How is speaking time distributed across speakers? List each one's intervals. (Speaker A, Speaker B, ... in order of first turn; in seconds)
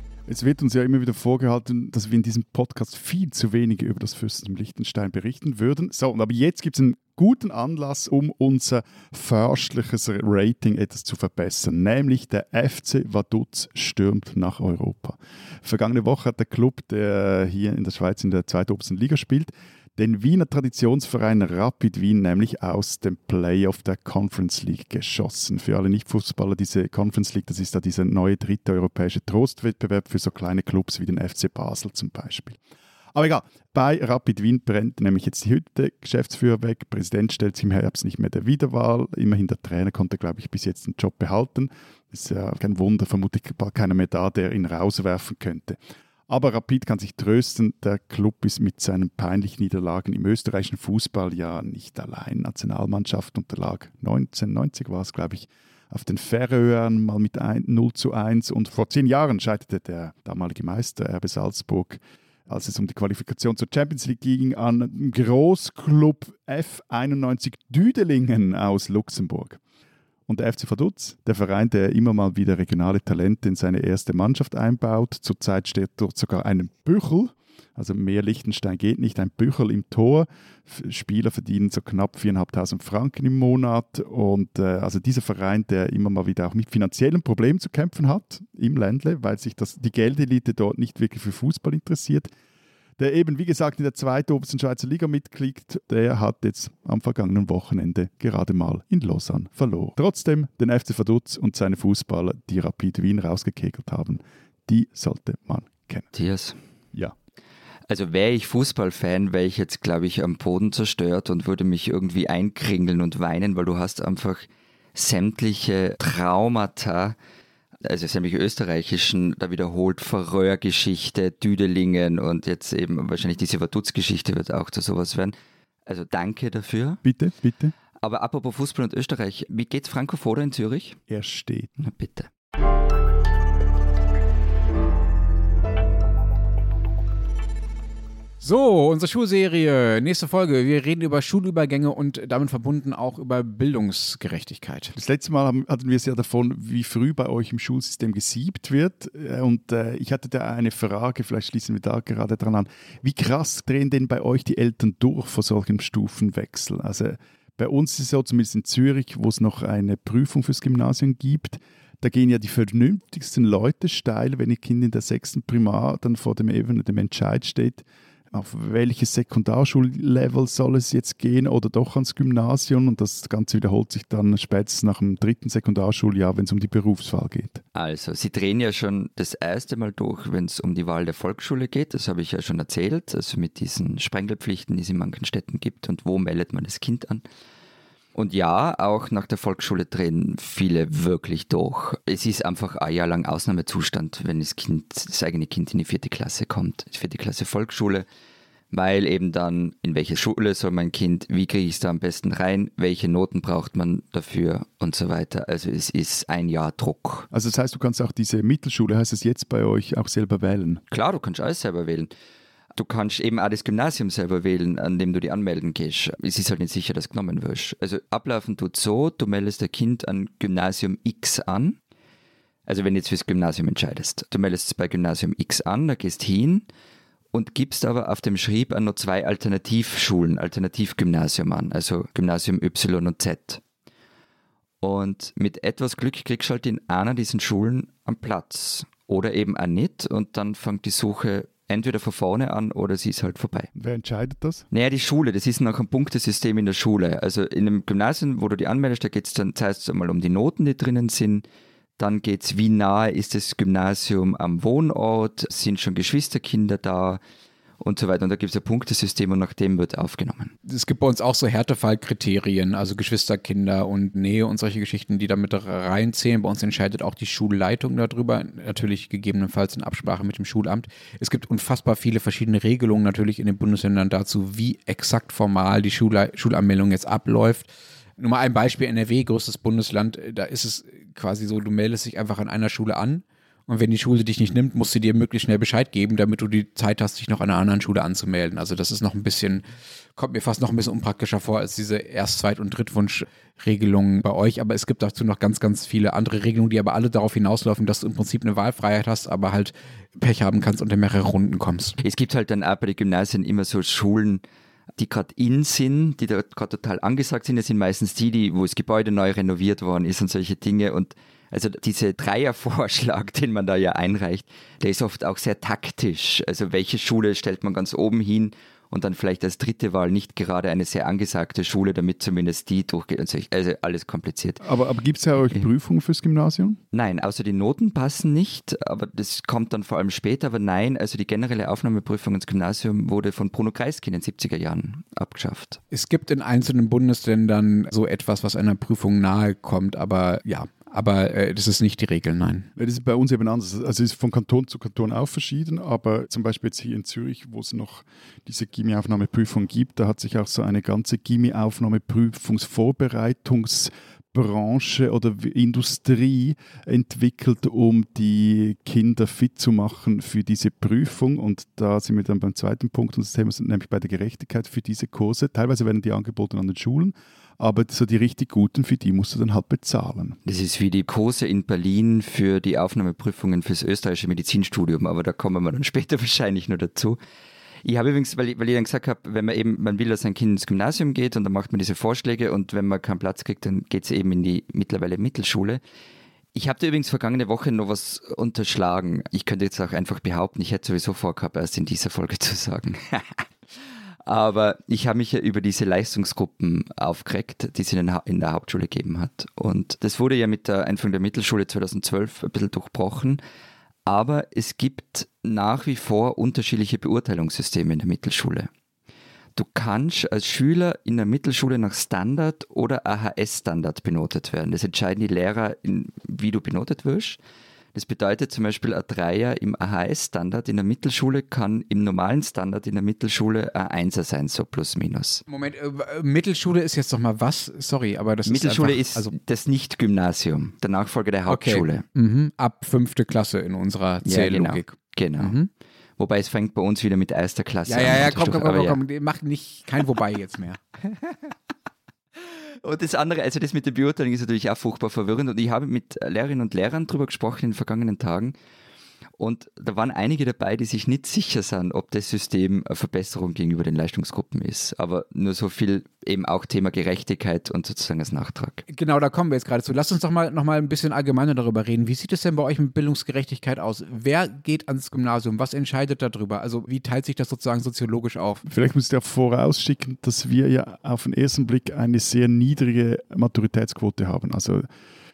Speaker A: 0.3-32.6, 33.1-69.6, 70.3-92.3, 93.0-106.1, 127.0-127.7, 131.1-131.7, 144.9-177.6, 207.3-210.8, 243.8-244.7, 324.6-326.8, 342.8-370.4, 468.7-474.9
Speaker B: 106.1-106.6, 107.9-117.2, 117.8-125.3, 125.9-127.0, 128.0-131.0, 131.8-132.3, 177.8-187.2, 188.2-198.1, 198.7-207.3, 210.9-212.1, 212.8-221.8, 222.7-226.7, 227.3-233.6, 234.8-243.7, 244.7-251.4, 252.0-257.2, 257.8-260.5, 302.0-304.4, 305.0-324.6, 326.9-335.8, 370.5-377.2, 377.8-385.8, 386.6-393.5, 394.2-403.4, 404.1-408.7, 409.6-417.4, 417.9-425.4, 428.5-432.0, 434.2-435.6, 436.2-439.0, 442.4-448.6, 449.4-458.8
Speaker C: 138.4-144.9, 260.7-289.6, 290.2-302.0, 335.9-342.7, 425.5-429.3, 431.5-435.7, 437.9-440.8, 458.9-468.6